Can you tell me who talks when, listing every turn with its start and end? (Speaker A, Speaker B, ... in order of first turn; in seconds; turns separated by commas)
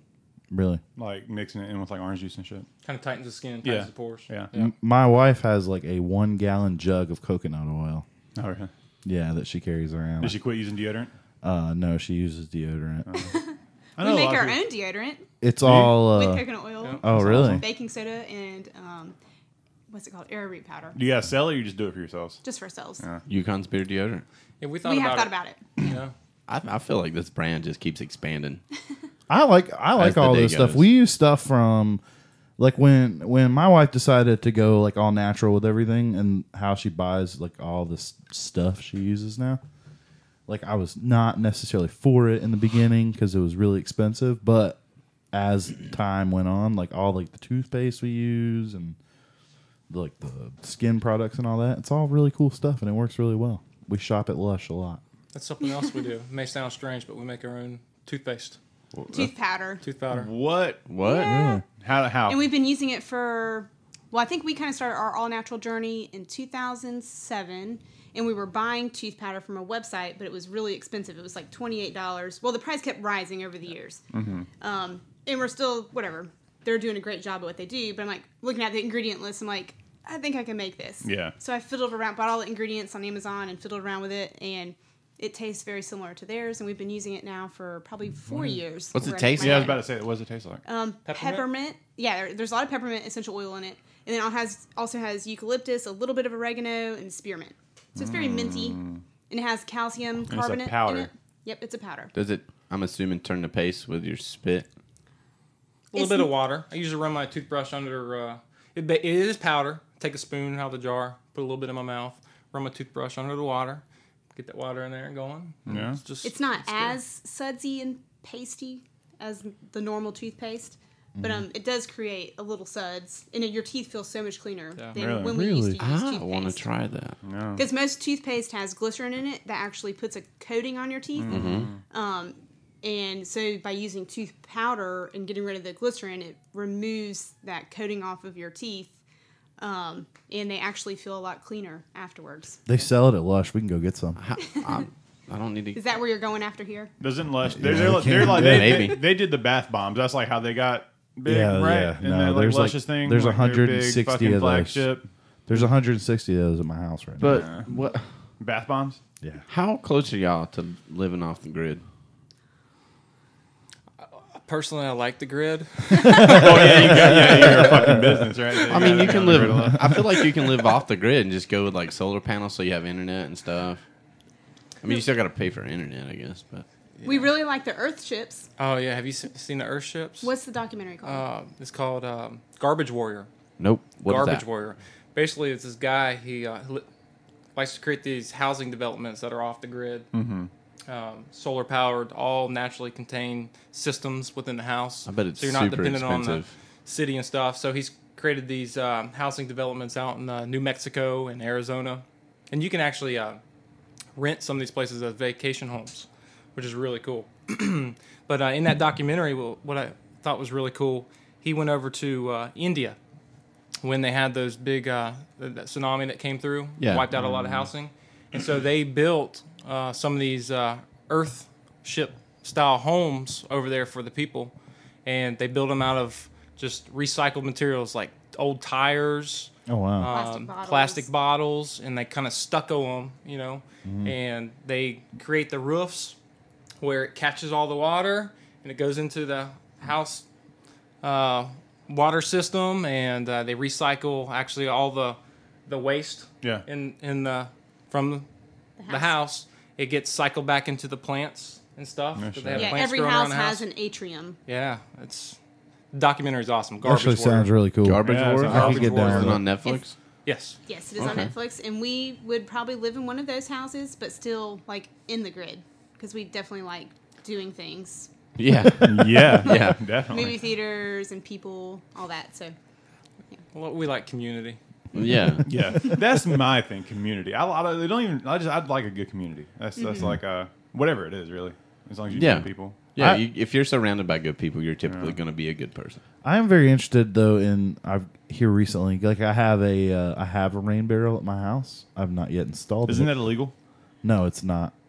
Speaker A: 0.5-0.8, Speaker B: 0.9-2.7, Speaker C: 2.8-4.7, Speaker B: 3.6-4.5, Speaker A: 4.5-8.0, Speaker B: 8.3-8.7, Speaker A: 9.0-10.4, Speaker B: 10.2-11.1, Speaker A: 11.4-13.1, Speaker B: 13.1-13.3, Speaker D: 13.2-15.3, Speaker B: 14.0-14.6, Speaker A: 15.4-16.4, Speaker B: 15.6-16.0, Speaker D: 16.0-19.1, Speaker C: 16.8-17.1, Speaker A: 17.0-17.6, Speaker B: 17.2-17.6, Speaker D: 19.9-21.0, Speaker B: 20.9-22.4, Speaker D: 22.4-23.0, Speaker E: 23.3-24.2, Speaker C: 24.6-26.1, Speaker D: 24.8-25.6, Speaker E: 26.5-28.6, Speaker A: 29.3-32.0, Speaker E: 30.0-30.9, Speaker A: 32.6-39.6, Speaker A: 40.5-44.8, Speaker A: 45.3-49.0, Speaker A: 49.9-55.0, Speaker C: 55.3-58.6, Speaker E: 58.9-59.3, Speaker D: 59.1-59.8, Speaker C: 59.8-60.3, Speaker B: 60.1-60.9, Speaker E: 60.9-61.4, Speaker D: 61.0-61.6, Speaker A: 61.2-61.6, Speaker B: 61.7-62.5, Speaker D: 62.3-74.0, Speaker B: 74.1-74.5, Speaker D: 74.6-89.9, Speaker B: 81.0-81.3, Speaker B: 88.3-88.6, Speaker E: 88.9-89.8, Speaker B: 89.3-90.6, Speaker D: 90.7-102.1, Speaker C: 91.0-91.5, Speaker B: 97.9-99.0, Speaker B: 100.3-101.1, Speaker E: 102.1-104.7, Speaker C: 105.9-113.8, Speaker D: 105.9-106.3, Speaker C: 114.3-117.0, Speaker B: 115.7-116.0, Speaker D: 116.2-126.7, Speaker A: 121.2-121.5, Speaker B: 125.0-125.4, Speaker A: 125.2-125.8, Speaker E: 125.8-127.2, Speaker B: 127.2-127.6, Speaker D: 127.5-138.9, Speaker B: 131.2-131.8, Speaker E: 131.3-131.7, Speaker D: 139.6-142.6, Speaker A: 142.7-144.2, Speaker E: 144.2-145.8, Speaker D: 145.7-146.9, Speaker B: 147.0-155.1, Speaker A: 147.5-148.9, Speaker E: 148.2-149.0, Speaker A: 151.2-154.9, Speaker A: 155.5-157.5, Speaker E: 157.2-158.0, Speaker B: 157.2-157.7, Speaker B: 158.4-159.0, Speaker E: 159.5-161.8, Speaker C: 164.0-166.5, Speaker B: 166.0-170.0, Speaker A: 166.2-168.2, Speaker E: 168.7-173.8, Speaker E: 174.8-176.6, Speaker C: 177.0-177.3, Speaker D: 177.0-178.5, Speaker C: 178.6-180.3, Speaker D: 180.2-181.2, Speaker C: 181.0-183.3, Speaker E: 183.6-184.4, Speaker C: 184.1-186.8, Speaker C: 187.5-190.1, Speaker B: 190.1-190.5, Speaker C: 190.9-203.4, Speaker E: 195.1-196.5, Speaker C: 204.2-213.0, Speaker C: 213.8-224.5, Speaker E: 216.8-217.1, Speaker B: 217.1-217.7, Speaker C: 225.0-236.2, Speaker A: 229.7-230.1, Speaker D: 230.1-231.1, Speaker A: 233.8-234.1, Speaker C: 236.8-240.2, Speaker C: 241.0-248.3, Speaker D: 248.8-249.1, Speaker C: 248.9-253.7, Speaker B: 252.1-252.8, Speaker D: 252.6-254.4, Speaker C: 254.5-255.4, Speaker C: 255.9-257.5, Speaker A: 256.8-259.4, Speaker E: 257.8-259.9, Speaker B: 258.0-259.0, Speaker C: 258.5-259.4, Speaker C: 260.2-260.6, Speaker D: 260.7-268.1, Speaker E: 261.0-261.3, Speaker E: 268.4-269.8, Speaker B: 268.8-270.4, Speaker D: 269.5-272.5, Speaker C: 273.5-274.6, Speaker E: 274.9-275.5, Speaker B: 275.4-282.9, Speaker D: 279.8-280.2, Speaker E: 282.1-286.0, Speaker B: 284.9-285.1, Speaker A: 286.2-293.2, Speaker B: 292.9-293.5, Speaker A: 294.0-294.7